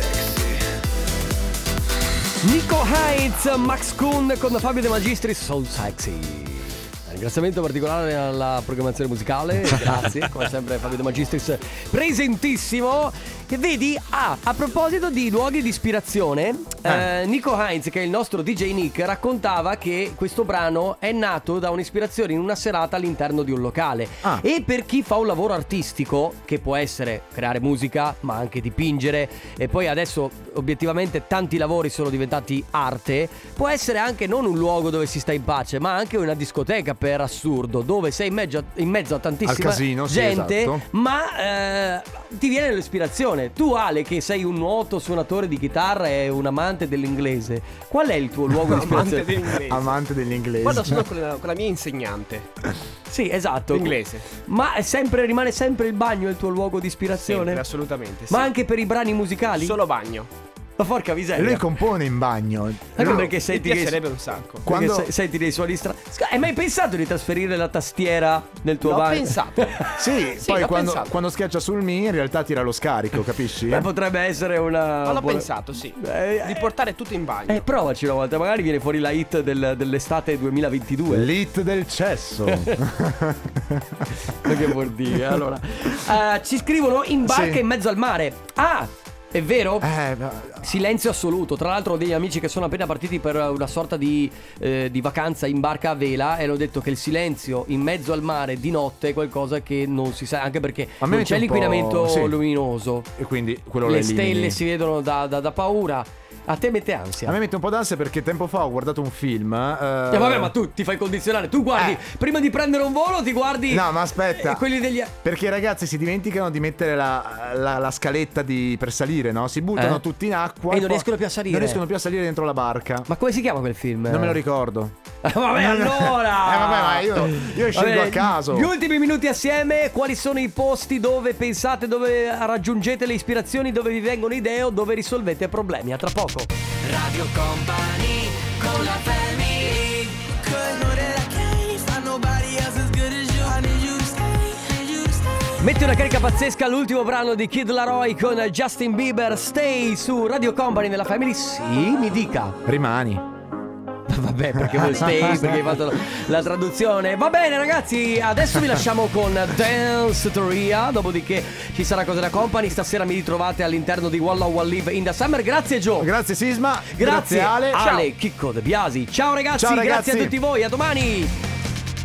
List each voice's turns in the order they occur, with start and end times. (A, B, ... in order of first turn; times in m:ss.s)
0:02.4-0:49.4 A
0:39.4-0:40.8 B
0:48.6-0:50.0 C
0:49.6-0:51.1 B
0:50.6-0:52.5 C
0:53.1-0:57.6 A
0:53.7-0:54.3 C
0:57.1-0:58.5 C
0:58.3-0:59.8 A
0:59.5-1:00.3 C
1:00.8-1:01.6 A
1:01.3-1:03.1 B
1:03.0-1:04.0 A
1:03.0-1:04.7 C
1:04.6-1:09.9 A
1:04.6-1:05.1 B
1:08.8-1:09.9 C
1:09.9-1:13.9 B
1:10.4-1:11.1 C
1:13.6-1:16.7 A
1:15.0-1:17.7 C
1:17.5-1:21.3 A
1:21.1-1:24.7 B
1:22.5-1:22.8 A
1:24.4-1:29.9 A
1:27.2-1:27.6 B
1:29.8-1:30.7 B
1:30.6-1:43.1 A
1:41.0-1:42.4 B
1:43.1-1:44.6 B
1:43.8-1:47.4 A
1:47.2-1:50.5 B
1:50.1-1:55.1 A
1:51.7-1:52.0 B
1:53.7-1:54.7 B
1:55.2-2:03.1 B
1:59.8-2:00.0 A
2:00.7-2:01.8 A
2:03.1-2:04.4 A
2:04.1-2:05.0 B
2:05.2-2:16.5 A
2:05.5-2:08.7 B
2:16.8-2:25.5 D
2:25.6-2:32.6 A
2:32.6-2:33.3 B
2:34.1-2:46.1 A
2:34.6-2:35.8 B
2:46.0-2:47.9 B
2:46.9-2:51.3 A
2:47.8-2:48.1 C
2:49.6-2:50.4 B